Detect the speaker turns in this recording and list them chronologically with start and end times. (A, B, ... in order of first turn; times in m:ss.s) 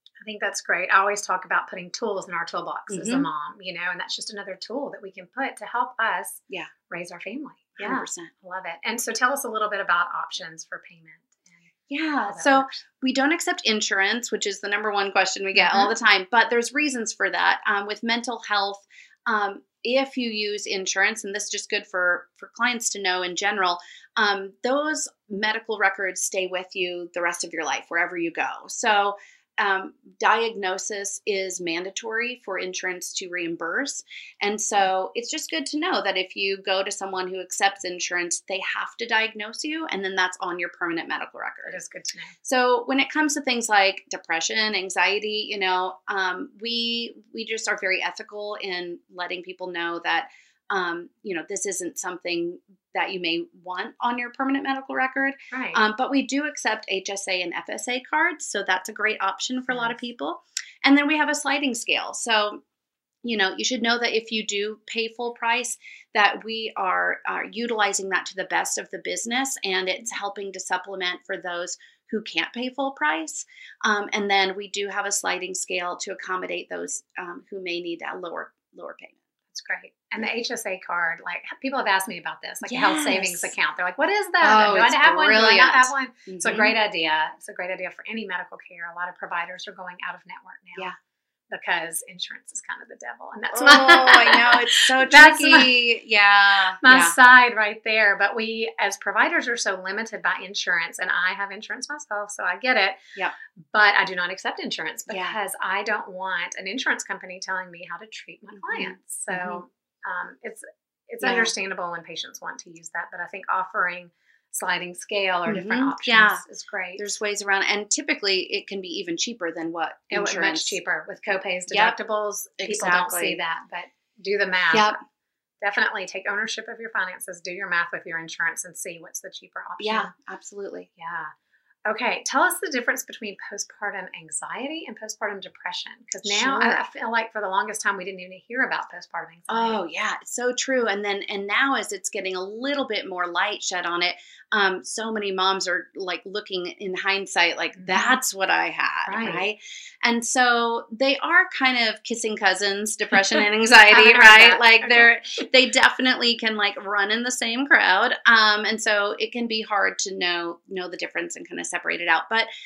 0:00.2-0:11.7 A
0:02.9-0:03.3 B
0:07.8-0:08.3 B
0:11.9-0:41.8 B
0:12.3-0:12.8 A
0:15.5-0:15.9 A
0:41.6-0:42.4 A
0:42.4-1:02.6 B
0:55.5-0:55.8 A
0:59.7-1:00.0 A
1:03.2-1:19.2 B
1:19.5-1:30.9 A
1:22.6-1:23.5 B
1:24.4-1:26.7 B
1:31.5-1:35.7 A
1:33.5-1:37.1 B
1:36.8-1:43.0 A
1:43.7-1:57.1 A
1:45.1-1:45.4 B
1:48.6-1:49.6 B
1:51.2-1:51.5 B
1:55.5-1:56.4 B
1:57.0-2:00.8 B
2:00.1-2:04.9 A
2:01.7-2:02.0 B
2:02.6-2:03.4 B
2:04.7-2:05.0 B
2:05.6-2:10.1 A
2:09.8-2:10.9 B
2:11.0-2:11.3 A
2:11.8-2:19.8 A
2:16.2-2:16.8 B
2:19.5-2:42.5 B
2:27.7-2:28.2 A
2:29.1-2:29.4 A
2:33.9-2:35.1 A